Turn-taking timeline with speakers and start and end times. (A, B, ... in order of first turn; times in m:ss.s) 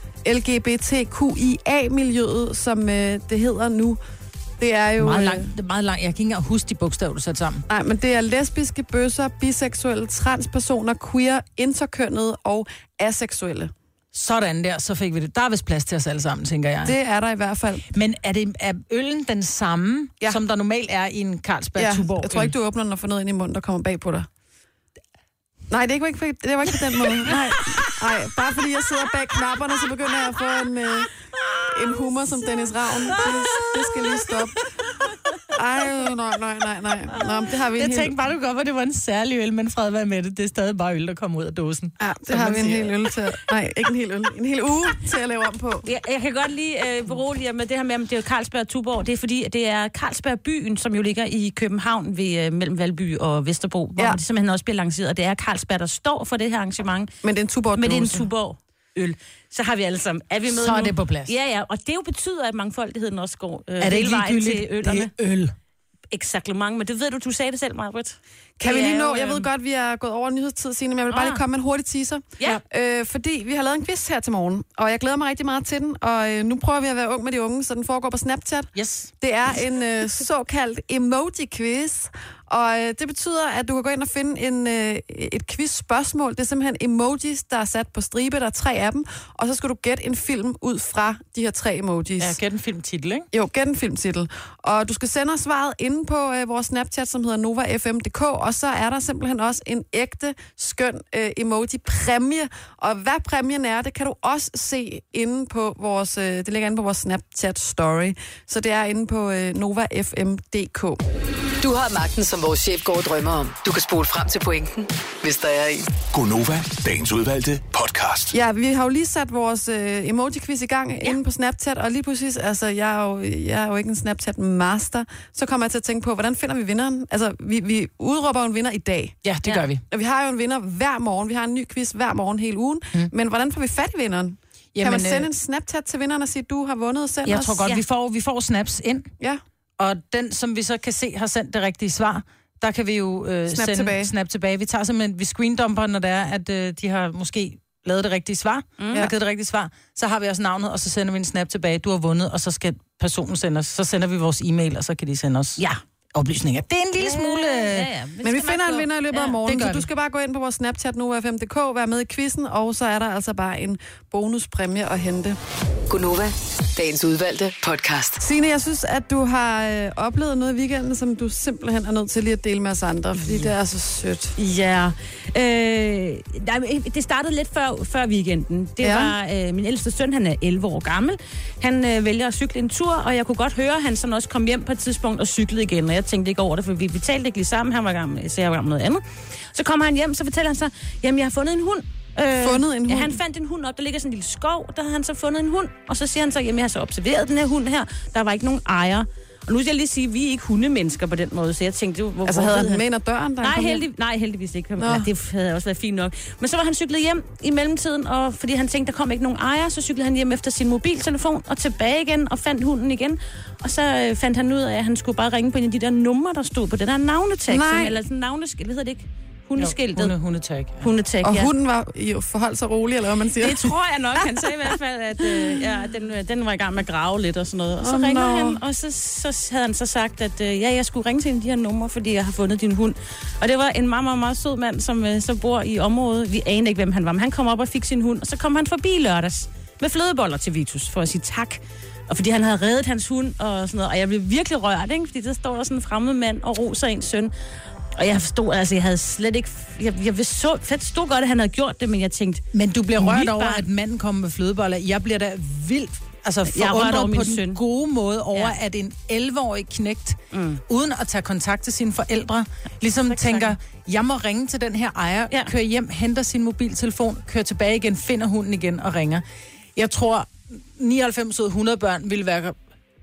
0:00.2-0:04.0 A
0:04.6-0:05.5 A
0:05.0-0:07.6 B
0:07.7-0:13.7 A
0:14.1-0:17.0 B
0:16.9-0:17.9 A
0:17.9-0:22.5 B
0:21.8-0:24.3 A
0:25.7-0:31.1 A
0:31.7-0:34.6 A
0:35.5-0:38.1 A
0:37.6-0:42.9 B
0:42.0-0:45.9 A
0:45.8-0:57.1 C
0:57.2-0:58.3 A
0:57.8-1:05.1 C
1:00.5-1:01.3 B
1:03.8-1:05.5 B
1:06.1-1:09.5 C
1:08.6-1:32.4 A
1:11.1-1:11.4 C
1:18.8-1:19.1 B
1:32.2-1:33.3 B
1:33.3-1:51.0 A
1:51.6-1:55.9 D
1:56.1-1:58.4 E
1:58.3-2:09.2 A
2:09.2-2:09.8 B
2:09.9-2:17.6 A
2:14.7-2:15.3 B
2:17.2-2:19.1 B
2:19.8-2:37.9 B
2:23.5-2:24.1 A
2:28.8-2:29.1 C
2:37.0-2:39.4 C
2:38.2-2:45.4 A
2:39.4-2:39.9 B
2:45.9-2:48.2 D
2:48.2-2:54.4 A
2:54.4-3:22.8 C
2:58.8-2:59.1 A
3:12.4-3:13.2 A
3:22.3-3:23.8 A
3:23.4-3:40.1 C
3:24.8-3:25.1 A
3:37.5-3:38.0 A
3:39.6-3:40.9 B
3:40.8-3:41.5 C
3:41.2-3:43.7 A
3:43.4-4:07.3 C
3:47.8-3:48.6 A
4:08.0-4:12.4 C
4:12.5-4:29.2 B
4:13.0-4:13.6 C
4:16.5-4:17.6 C
4:20.3-4:20.6 C
4:23.1-4:23.5 C
4:29.8-4:32.6 B